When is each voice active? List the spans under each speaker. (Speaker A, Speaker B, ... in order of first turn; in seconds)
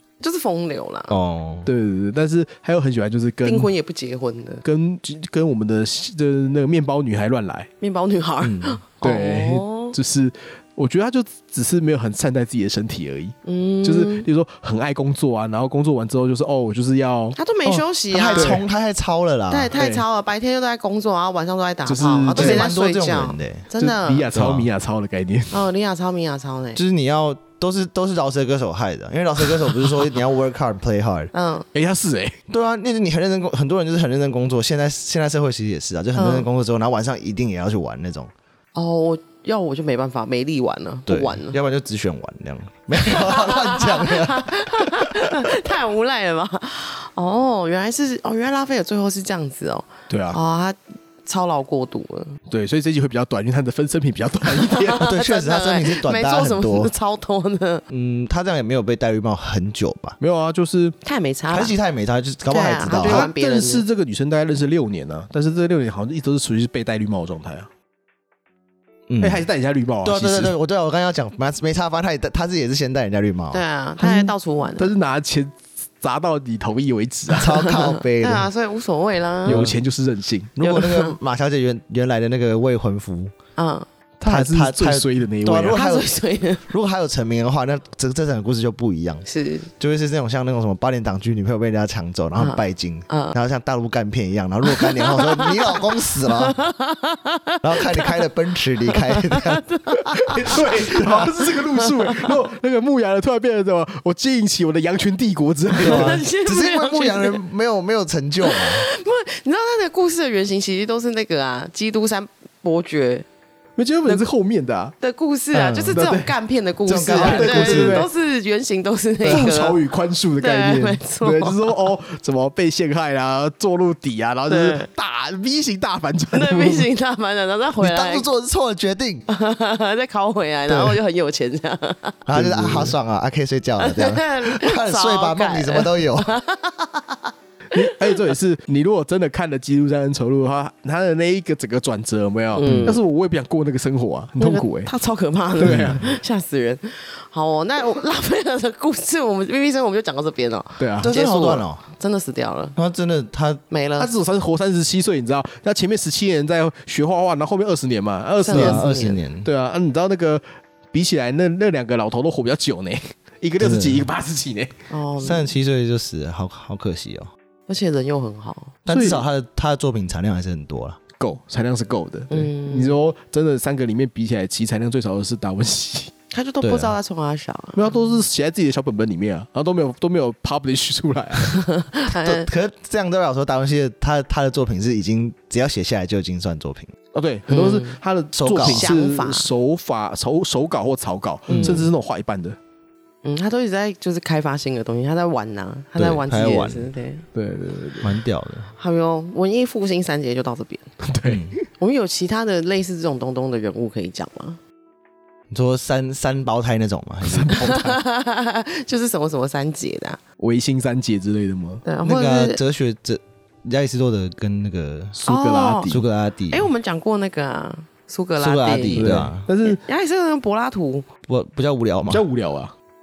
Speaker A: 0.2-1.1, 3.4-4.6, 7.8-9.9, 13.4-14.3, 17.4-18.6, 19.5-24.3, 25.5-26.8, 31.3-31.7, 36.1-36.5, 38.7-41.6, 43.0-52.4, 54.6-57.8, 61.0-61.7, 62.5-63.8, 73.5-74.9, 77.5-79.7, 80.6-81.1, 83.6-83.9, 85.7-86.7, 89.2-89.7, 92.4-93.4, 94.6-98.3, 98.8-102.3, 105.8-107.4, 108.4-113.3, 115.0-119.8, 120.4-121.9, 124.5-124.9, 126.3-128.2, 129.3-132.3, 133.8-138.2, 142.6-143.0, 144.4-152.7, 153.7-154.1, 158.4-159.2, 164.9-165.5, 167.7-168.8, 172.3-172.9, 176.3-178.2, 181.4-182.5, 187.5-188.0, 188.5-189.5, 191.5-191.9, 193.2-197.2, 198.8-200.9, 201.8-204.6, 207.6-210.2, 211.8-212.6, 215.2-216.0, 216.5-221.1
Speaker B: 1.1-1.7, 8.4-8.8, 17.6-19.7, 22.3-23.7, 24.3-24.7, 26.8-31.3, 32.5-38.3, 41.1-45.6, 55.0-56.9, 57.9-60.1, 61.5-63.3, 69.1-69.5, 70.0-73.6, 77.4-78.5, 79.5-79.8, 80.6-83.3, 84.3-86.1, 86.7-89.2, 89.8-96.6, 97.6-99.6, 100.9-101.3, 105.8-108.9, 115.5-116.0, 116.9-118.1, 127.8-129.2, 130.7-131.0, 132.3-136.3, 142.6-143.0, 145.6-146.0, 151.0-151.8, 152.8-153.6, 158.5-159.5, 163.6-164.1, 165.2-167.3, 168.8-171.0, 176.6-176.9, 182.2-186.9, 188.3-188.9, 191.5-191.9, 195.9-196.9, 198.0-198.7, 201.2-201.6, 205.5-207.8, 212.0-215.2, 215.9-216.7, 218.4-219.5, 221.3-222.2
Speaker C: 1.6-3.7, 4.6-7.7, 9.0-17.4, 18.3-18.6, 19.7-20.0, 21.9-22.6, 23.8-25.7, 31.7-32.4, 50.1-50.4, 52.5-55.1, 60.2-61.0, 62.9-67.7, 69.2-70.5, 74.8-77.6, 79.4-80.5, 84.2-85.8, 100.3-106.2, 113.8-114.9, 115.9-116.3, 117.0-118.1, 119.2-126.9, 132.3-132.9, 137.7-144.9, 145.6-146.1, 150.8-151.1, 154.0-164.8, 168.9-169.2, 171.2-176.1, 177.8-181.5, 187.1-192.6, 197.3-198.2, 201.0-201.6, 207.2-208.0, 210.4-211.8, 215.1-216.0, 218.9-219.8, 222.1-222.7